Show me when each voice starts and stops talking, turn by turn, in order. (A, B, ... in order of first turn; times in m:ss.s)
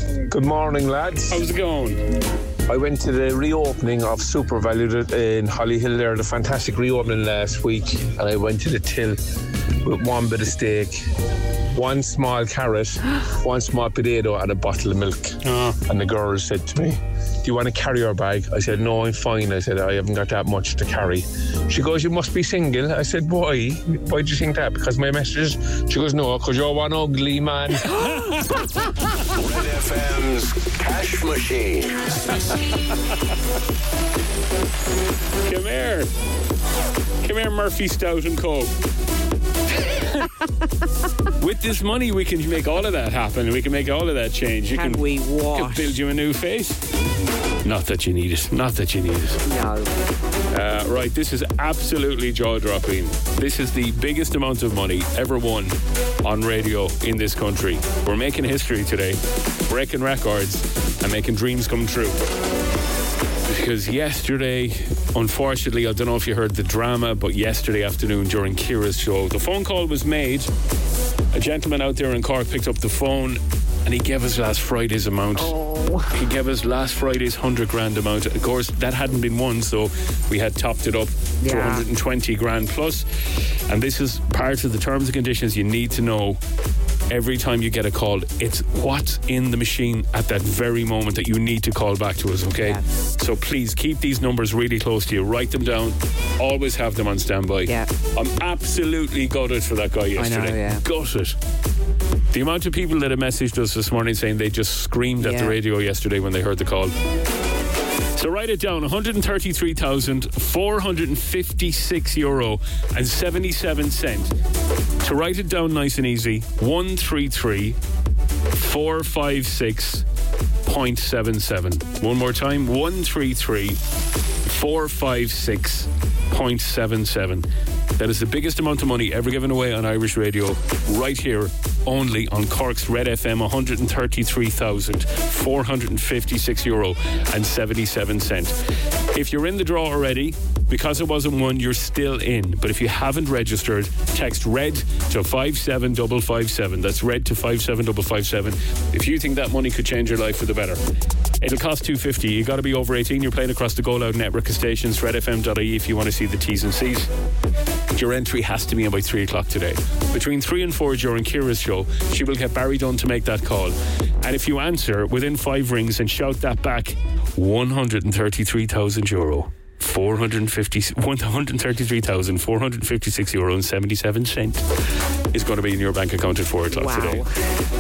0:00.3-0:01.4 A
0:01.3-0:02.0 B
0:02.7-0:09.2 A
0:09.8-0:11.0 A
0:11.7-0:27.9 A
0:15.4-0:15.8 B
0:27.9-0:28.6 B
0:29.3-0:32.1 C
0:35.4-0:36.1 B
0:37.2-0:38.7 B
0:39.9-0:40.3 B
0:41.4-0:46.8 B
0:44.7-0:45.9 D
0:47.6-0:49.4 B
0:49.5-0:49.9 D
0:50.5-1:02.2 B
1:03.5-1:10.5 B
1:11.3-1:15.6 B
1:15.4-1:16.2 D
1:16.1-1:23.1 B
1:21.4-1:21.8 D
1:23.7-1:26.4 B
1:27.1-1:41.4 B
1:40.2-1:40.8 D
1:42.3-1:47.0 B
1:45.2-1:45.6 D
1:48.2-1:54.3 B
1:55.0-1:57.8 B
1:58.5-2:00.1 B
2:00.6-2:03.8 B
2:04.4-2:07.5 B
2:08.0-2:18.6 B
2:19.1-2:30.8 B
2:31.4-2:37.1 B
2:37.9-2:54.6 B
2:55.3-2:57.2 B
2:56.7-2:57.3 D